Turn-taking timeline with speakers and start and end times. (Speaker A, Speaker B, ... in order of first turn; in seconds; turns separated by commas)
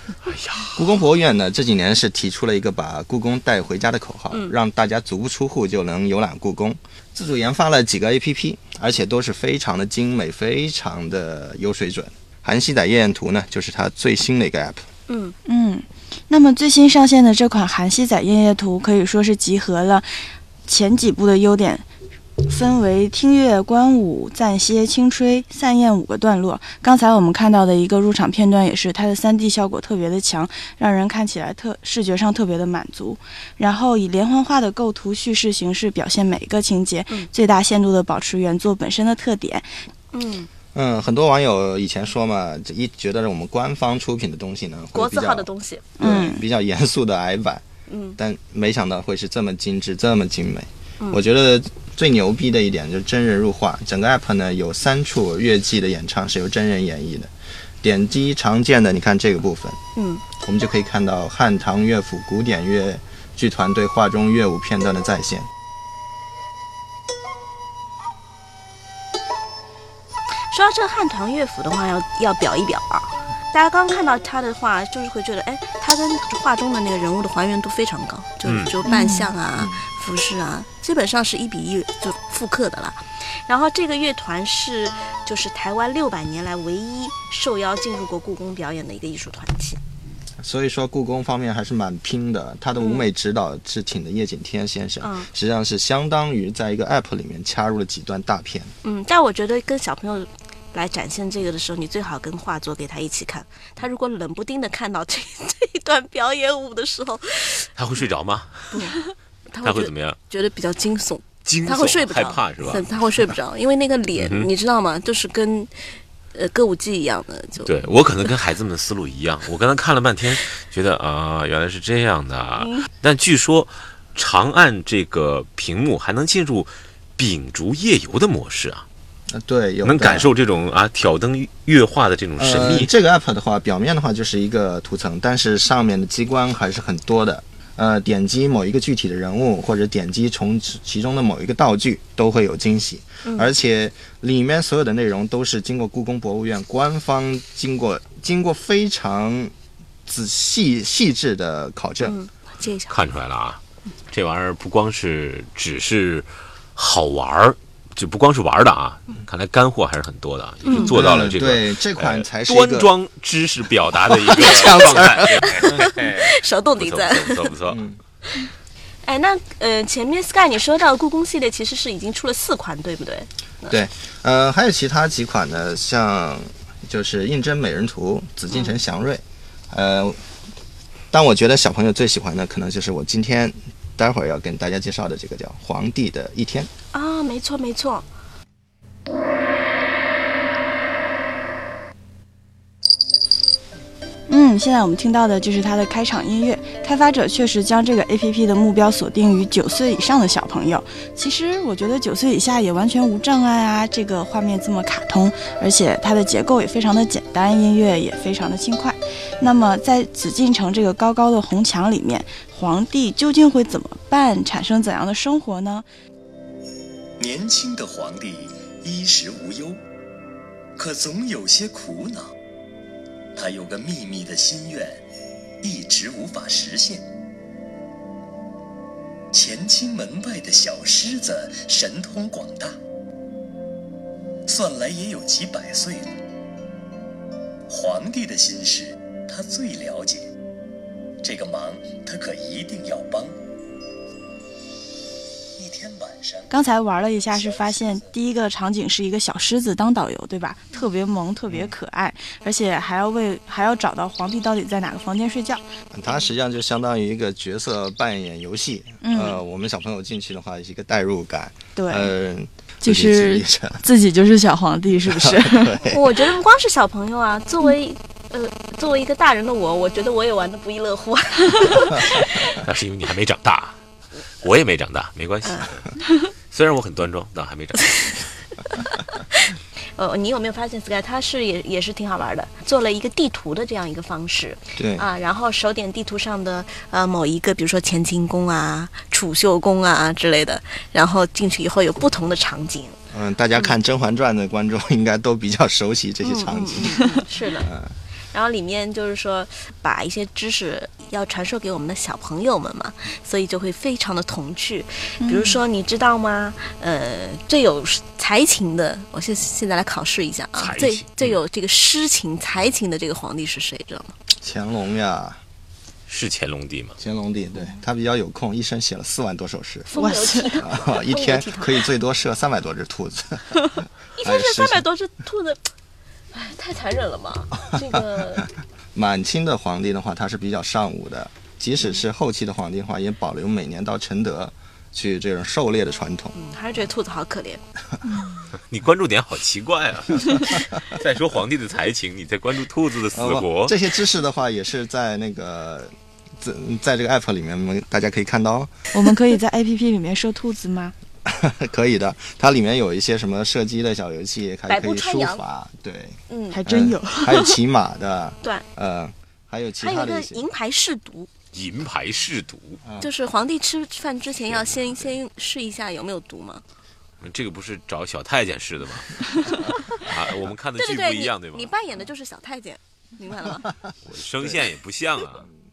Speaker A: 0.3-0.8, Speaker B: 0.8-14.8, Speaker C: 15.1-15.4, Speaker D: 15.5-20.1, Speaker D: 20.7-21.9, Speaker D: 22.4-39.7, Speaker C: 40.1-40.5, Speaker B: 40.7-45.5, Speaker C: 44.9-46.2, Speaker D: 46.0-46.4, Speaker B: 46.0-47.6, Speaker C: 47.9-48.2, Speaker B: 48.2-59.8, Speaker C: 60.0-60.2, Speaker B: 60.4-65.5, Speaker C: 70.5-89.8, Speaker A: 78.5-78.7, Speaker D: 78.9-79.3, Speaker B: 90.4-98.7, Speaker C: 92.8-93.1, Speaker C: 95.0-95.3, Speaker C: 98.8-107.7, Speaker A: 107.8-108.9, Speaker C: 108.7-115.7, Speaker A: 109.6-110.2, Speaker A: 111.5-112.9, Speaker A: 114.2-114.5, Speaker C: 116.3-117.7, Speaker A: 117.6-128.9, Speaker B: 129.3-130.3, Speaker A: 129.8-132.9, Speaker B: 132.4-149.5, Speaker C: 143.3-143.5, Speaker B: 150.1-152.2, Speaker C: 152.0-153.0, Speaker A: 152.9-153.6, Speaker A: 154.1-167.8, Speaker C: 160.7-160.9, Speaker B: 160.9-162.9, Speaker B: 164.1-165.5, Speaker C: 164.3-167.5, Speaker B: 167.7-168.0, Speaker C: 169.1-173.8, Speaker B: 173.7-180.2, Speaker C: 178.5-178.8, Speaker B: 181.1-186.7, Speaker C: 186.9-188.1, Speaker D: 194.3-215.9, Speaker E: 217.2-219.8, Speaker E: 220.8-222.3, Speaker E: 223.3-225.1, Speaker E: 225.6-227.1, Speaker E: 229.3-232.8, Speaker E: 234.5-236.2, Speaker E: 237.7-240.3, Speaker E: 241.2-243.4, Speaker E: 245.6-246.6, Speaker D: 246.5-255.6, Speaker E: 247.3-248.1, Speaker B: 251.5-251.7, Speaker B: 255.9-263.8, Speaker D: 259.0-259.4, Speaker D: 261.8-262.1, Speaker D: 262.8-265.8, Speaker B: 265.0-266.3, Speaker C: 265.9-272.6, Speaker A: 272.6-273.8, Speaker A: 274.4-275.8, Speaker A: 276.5-278.3, Speaker C: 278.7-279.2, Speaker C: 280.0-293.0, Speaker B: 284.8-285.1, Speaker B: 293.1-297.9, Speaker C: 296.2-297.7, Speaker C: 298.3-314.1, Speaker D: 305.2-305.6, Speaker A: 310.6-311.4, Speaker B: 314.4-315.4, Speaker A: 316.1-317.0, Speaker B: 317.0-319.9, Speaker C: 319.9-321.8, Speaker D: 319.9-320.5, Speaker B: 320.6-324.9, Speaker C: 324.2-325.6, Speaker C: 326.3-328.5, Speaker B: 328.9-336.4, Speaker C: 336.4-337.6, Speaker A: 338.7-343.8, Speaker B: 343.1-348.7, Speaker D: 348.9-350.9, Speaker B: 351.2-360.4, Speaker C: 354.7-355.4, Speaker C: 356.3-356.6, Speaker D: 356.5-357.6, Speaker C: 359.8-361.3, Speaker A: 361.5-362.8, Speaker B: 362.8-363.1, Speaker C: 363.0-366.6, Speaker A: 364.5-365.2, Speaker A: 367.2-369.2, Speaker C: 369.7-370.1, Speaker A: 369.9-371.7, Speaker C: 370.8-373.7, Speaker A: 374.1-375.5